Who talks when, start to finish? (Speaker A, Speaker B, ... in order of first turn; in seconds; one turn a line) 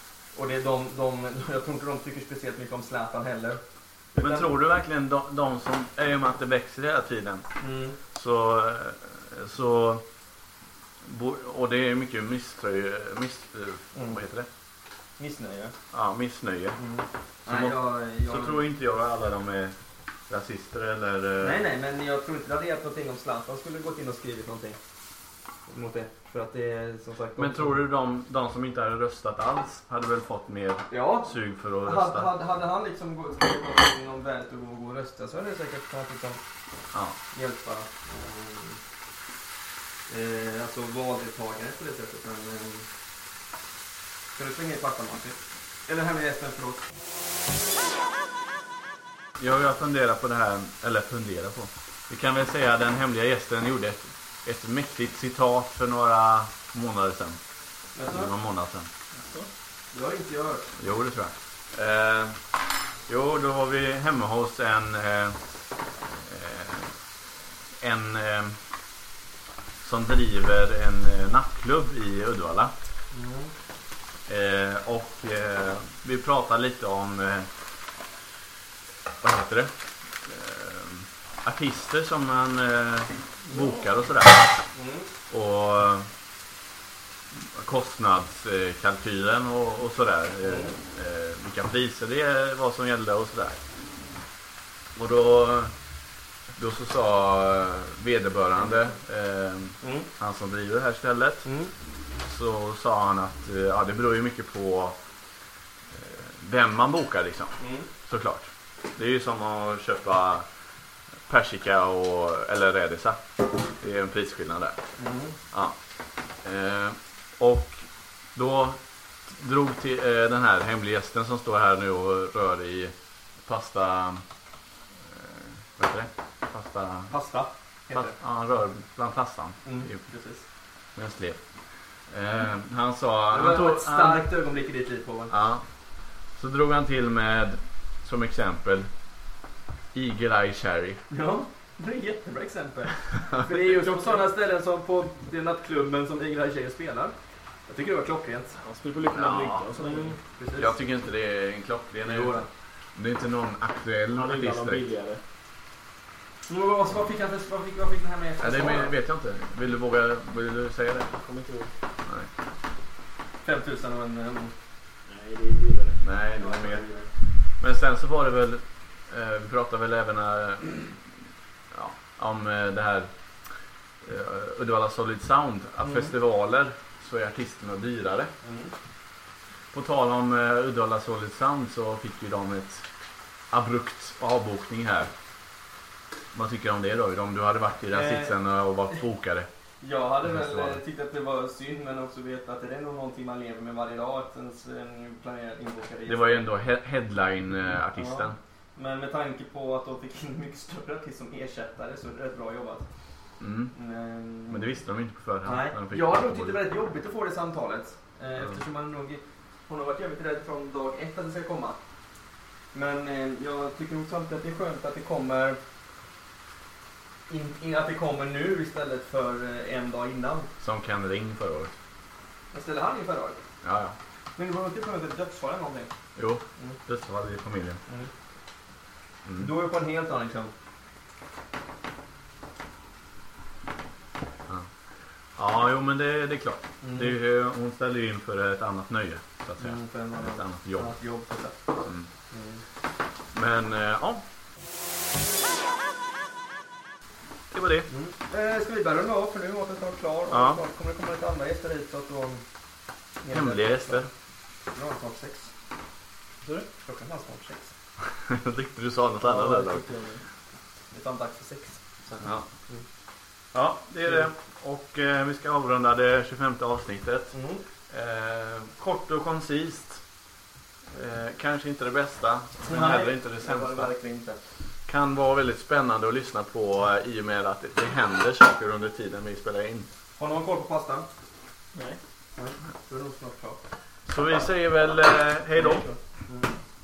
Speaker A: 0.3-3.6
Speaker A: 4.1-4.5
Speaker B: 4.2-7.5
Speaker A: 7.6-8.0
Speaker B: 8.1-10.1
Speaker B: 11.0-14.5
Speaker A: 13.9-14.2
Speaker A: 15.2-15.8
Speaker B: 15.9-16.8
Speaker A: 16.8-18.6
Speaker B: 17.5-19.8
Speaker B: 20.3-21.6
Speaker A: 21.4-24.8
Speaker A: 25.7-27.8
Speaker B: 27.4-32.3
Speaker A: 30.9-31.3
Speaker A: 31.8-36.4
Speaker A: 37.3-38.8
Speaker A: 40.1-42.9
Speaker A: 44.4-46.9
Speaker B: 49.4-57.4
Speaker A: 58.0-58.3
Speaker B: 58.1-58.9
Speaker A: 59.9-60.7
Speaker B: 60.8-62.4
Speaker B: 63.1-65.4
Speaker B: 66.1-66.9
Speaker B: 67.8-68.6
Speaker B: 69.8-72.7
Speaker A: 73.1-73.5
Speaker B: 74.3-77.5
Speaker B: 79.2-79.7
Speaker B: 80.2-84.5
Speaker C: 83.5-83.8
Speaker A: 84.7-85.1
Speaker B: 85.3-86.1
Speaker B: 87.4-93.6
Speaker A: 90.4-90.8
Speaker B: 95.0-95.7
Speaker B: 96.6-101.5
Speaker A: 99.8-100.1
Speaker A: 101.5-101.7
Speaker B: 102.2-105.0
Speaker B: 105.9-107.5
Speaker A: 107.6-107.9
Speaker B: 108.1-110.5
Speaker B: 111.3-113.2
Speaker B: 113.8-114.8
Speaker A: 115.0-115.4
Speaker B: 116.4-122.9
Speaker B: 123.5-124.2
Speaker B: 125.0-127.1
Speaker A: 127.1-128.2
Speaker B: 127.9-130.0
Speaker A: 129.7-130.4
Speaker B: 131.0-131.4
Speaker B: 132.1-134.3
Speaker A: 133.3-135.3
Speaker B: 135.3-135.6
Speaker B: 136.4-138.9
Speaker B: 139.9-141.0
Speaker A: 141.1-147.1
Speaker B: 143.3-143.7
Speaker C: 143.8-144.2
Speaker A: 147.7-148.6
Speaker C: 148.6-150.2
Speaker B: 149.1-149.7
Speaker A: 149.8-150.8
Speaker B: 150.6-154.8
Speaker A: 152.0-152.5
Speaker C: 154.1-155.2
Speaker A: 156.5-158.9
Speaker B: 158.4-161.1
Speaker C: 161.1-161.7
Speaker A: 163.4-164.5
Speaker C: 165.1-166.0
Speaker B: 166.0-166.9
Speaker A: 166.4-167.1
Speaker B: 167.6-171.0
Speaker B: 171.7-173.1
Speaker B: 174.0-178.3
Speaker A: 175.8-176.1
Speaker A: 178.4-178.7
Speaker B: 179.7-182.8
Speaker B: 183.5-185.1
Speaker B: 186.3-189.5
Speaker A: 187.9-188.3
Speaker A: 189.8-196.5
Speaker B: 190.3-190.8
Speaker B: 196.1-198.4
Speaker A: 197.9-202.8
Speaker B: 203.4-203.7
Speaker A: 203.7-204.7
Speaker B: 204.5-206.6
Speaker A: 205.4-211.8
Speaker A: 212.7-215.6
Speaker A: 217.3-220.5
Speaker B: 220.6-221.7
Speaker A: 222.5-223.4
Speaker B: 223.6-223.9
Speaker A: 224.4-225.9
Speaker B: 226.2-227.8
Speaker B: 229.2-229.5
Speaker A: 229.4-230.5
Speaker B: 235.4-240.9
Speaker A: 236.8-237.2
Speaker A: 239.6-242.6
Speaker B: 241.8-242.1
Speaker B: 243.3-244.2
Speaker B: 247.5-247.9
Speaker A: 247.9-252.4
Speaker B: 250.3-250.6
Speaker A: 253.2-254.1
Speaker B: 253.3-254.1
Speaker A: 254.7-255.5
Speaker A: 256.8-257.7
Speaker B: 258.1-259.8
Speaker C: 259.2-260.2
Speaker A: 260.9-262.8
Speaker B: 262.2-262.5
Speaker B: 263.5-267.4
Speaker A: 267.3-267.6
Speaker B: 267.9-270.0
Speaker B: 270.9-273.9
Speaker A: 272.6-274.4
Speaker B: 274.9-279.9
Speaker A: 280.2-281.1
Speaker C: 281.7-282.0
Speaker A: 282.4-283.6
Speaker B: 284.1-285.9
Speaker C: 285.6-286.0